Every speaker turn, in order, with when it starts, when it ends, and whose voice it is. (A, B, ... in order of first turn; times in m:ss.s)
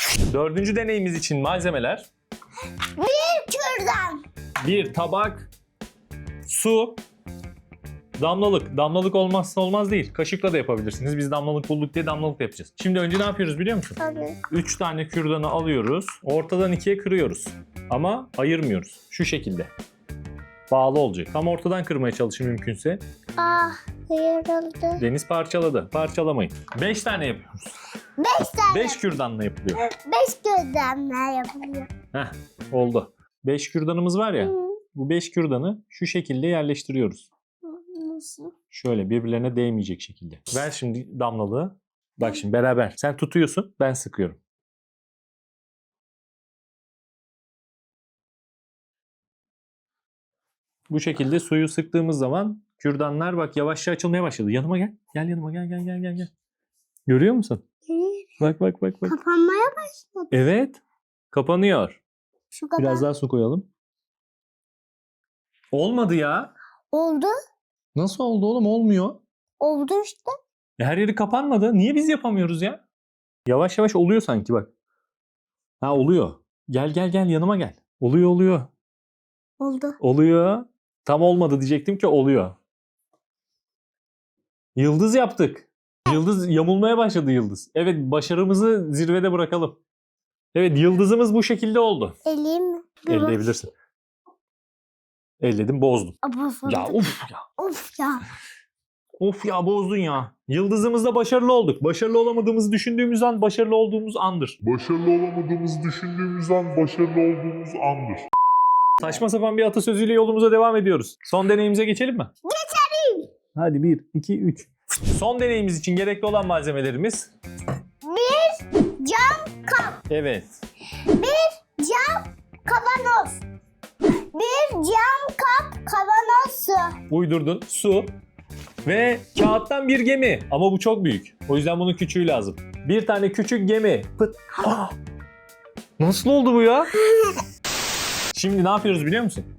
0:00.3-0:02.1 A
0:03.0-0:04.2 B
0:04.6-0:05.5 A
0:06.5-0:07.0 A
0:08.2-0:14.0 A
0:14.0-0:14.4 B
0:14.5-0:19.7 A
0:20.7-0:23.0 A
0:23.4-0:25.0 B
0:25.0-0:27.7 A
0:28.2-0:29.0 B
0:28.7-0:29.8 A
0:29.8-0:31.9 B
0:32.1-0:37.3 A
0:34.4-0:34.8 B
0:37.6-0:38.5 B
0:38.7-0:44.4 A
0:50.9-0:56.3 A
0:57.1-0:57.6 A
0:57.9-0:58.4 B
0:58.4-0:59.2 A
0:59.1-1:00.3 B
1:00.3-1:00.8 A
1:01.3-1:02.0 A
1:02.5-1:03.1 B
1:02.8-1:03.7 A
1:05.7-1:06.5 A
1:06.9-1:07.3 B
1:07.9-1:09.2 A
1:09.6-1:10.4 B
1:10.8-1:12.8 A
1:13.5-1:14.7 A
1:15.8-1:18.7 A
1:19.6-1:20.0 B
1:20.0-1:22.6 A
1:24.8-1:29.8 A
1:30.5-1:32.2 A
1:32.2-1:33.4 B
1:33.1-1:33.7 A
1:35.4-1:36.2 A
1:36.2-1:37.0 B
1:36.7-1:37.4 A
1:37.6-1:38.2 B
1:39.2-1:44.8 A
1:44.8-1:48.1 C
1:45.5-1:48.2 A
1:49.0-1:52.3 A
1:52.4-1:53.3 B
1:53.6-1:57.3 A
1:58.0-2:00.0 B
2:00.1-2:00.6 A
2:01.2-2:03.4 B
2:04.3-2:07.0 B
2:07.1-2:08.1 A
2:08.8-2:15.0 A
2:16.0-2:17.0 A
2:17.0-2:17.4 B
2:18.3-2:19.5 A